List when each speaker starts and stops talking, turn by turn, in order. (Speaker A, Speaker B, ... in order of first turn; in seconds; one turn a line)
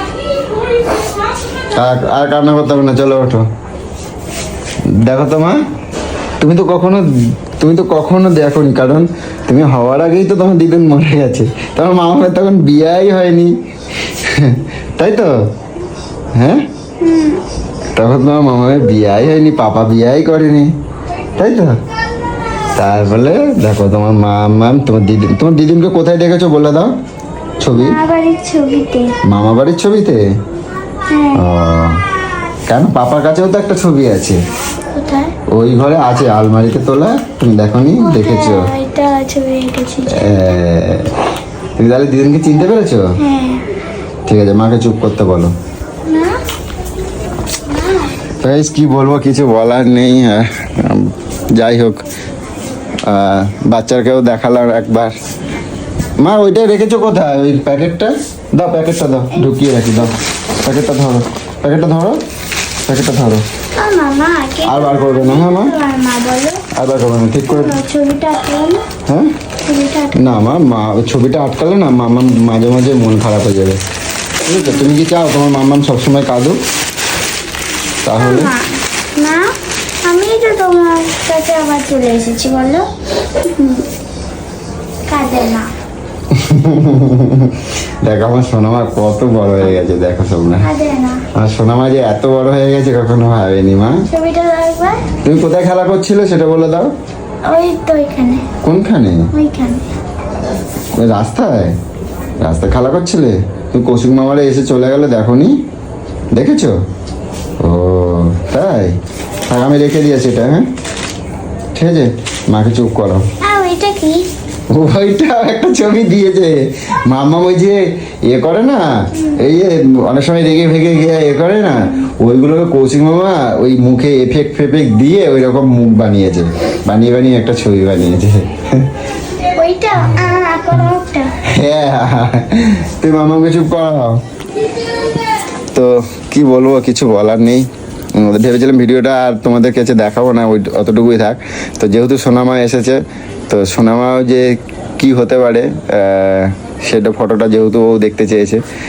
Speaker A: 1.7-3.4
Speaker A: 5.0-5.5
Speaker A: 6.4-15.3
Speaker A: 16.4-16.6
Speaker B: 17.0-17.4
Speaker A: 17.9-20.7
Speaker A: 21.4-21.8
Speaker A: 22.7-26.9
Speaker A: 27.6-28.0
Speaker B: 27.8-29.1
Speaker A: 29.2-30.2
Speaker B: 31.1-31.4
Speaker A: 31.3-32.0
Speaker A: 32.7-34.4
Speaker B: 34.9-35.3
Speaker A: 35.5-38.7
Speaker B: 38.0-40.2
Speaker A: 40.1-41.1
Speaker A: 41.8-43.1
Speaker B: 43.2-43.6
Speaker A: 44.3-45.5
Speaker B: 46.0-46.4
Speaker B: 47.7-48.1
Speaker A: 48.4-52.0
Speaker A: 53.0-55.1
Speaker A: 56.2-62.2
Speaker B: 59.3-60.1
Speaker A: 62.9-63.4
Speaker B: 63.8-66.6
Speaker A: 64.6-65.7
Speaker A: 66.7-67.8
Speaker B: 67.5-68.8
Speaker A: 69.1-69.3
Speaker B: 69.7-70.3
Speaker A: 70.1-73.8
Speaker A: 74.4-76.6
Speaker A: 78.0-78.5
Speaker B: 78.2-79.5
Speaker B: 80.0-82.8
Speaker B: 83.4-83.8
Speaker B: 85.1-85.7
Speaker A: 86.3-90.7
Speaker B: 90.6-91.2
Speaker A: 91.3-94.0
Speaker B: 94.1-95.0
Speaker A: 95.2-96.9
Speaker B: 97.5-98.5
Speaker A: 98.6-99.3
Speaker B: 99.3-99.8
Speaker A: 101.0-101.8
Speaker A: 102.4-105.5
Speaker A: 106.3-106.7
Speaker A: 107.6-109.0
Speaker A: 109.5-110.7
Speaker A: 111.7-113.2
Speaker B: 113.4-114.3
Speaker A: 114.7-128.9
Speaker B: 129.5-131.3
Speaker A: 131.5-134.2
Speaker A: 135.7-148.6